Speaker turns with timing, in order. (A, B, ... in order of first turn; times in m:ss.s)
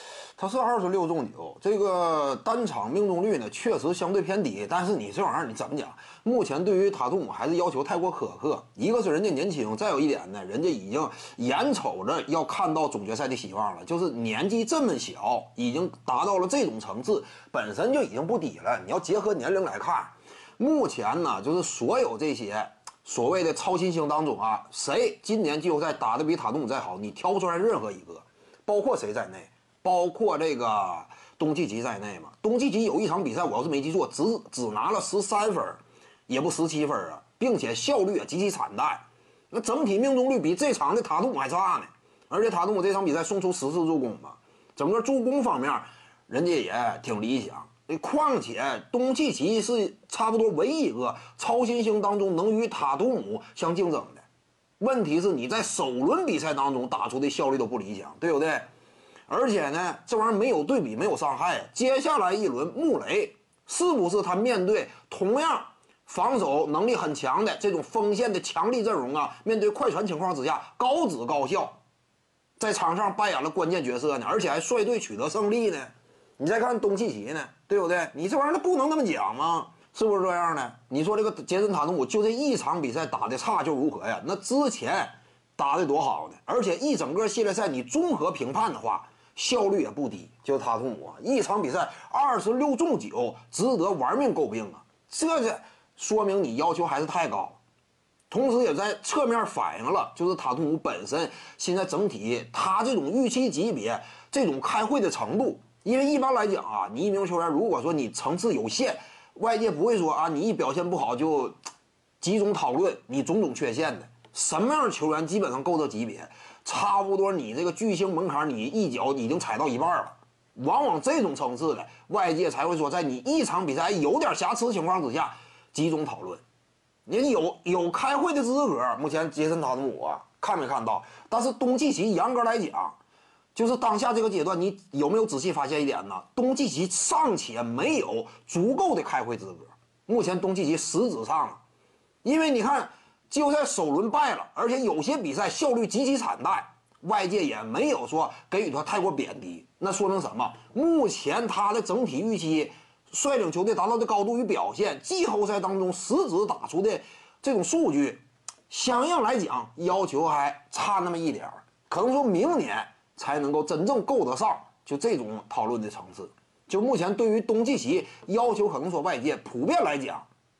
0:00.4-0:54.2 A
0:54.8-0:58.7 A
0:59.3-1:11.8 A
1:12.6-1:37.6 A
1:38.3-1:51.6 A
1:52.2-2:06.4 A
2:07.1-2:13.0 A
2:13.5-2:21.6 A
2:22.2-2:50.3 A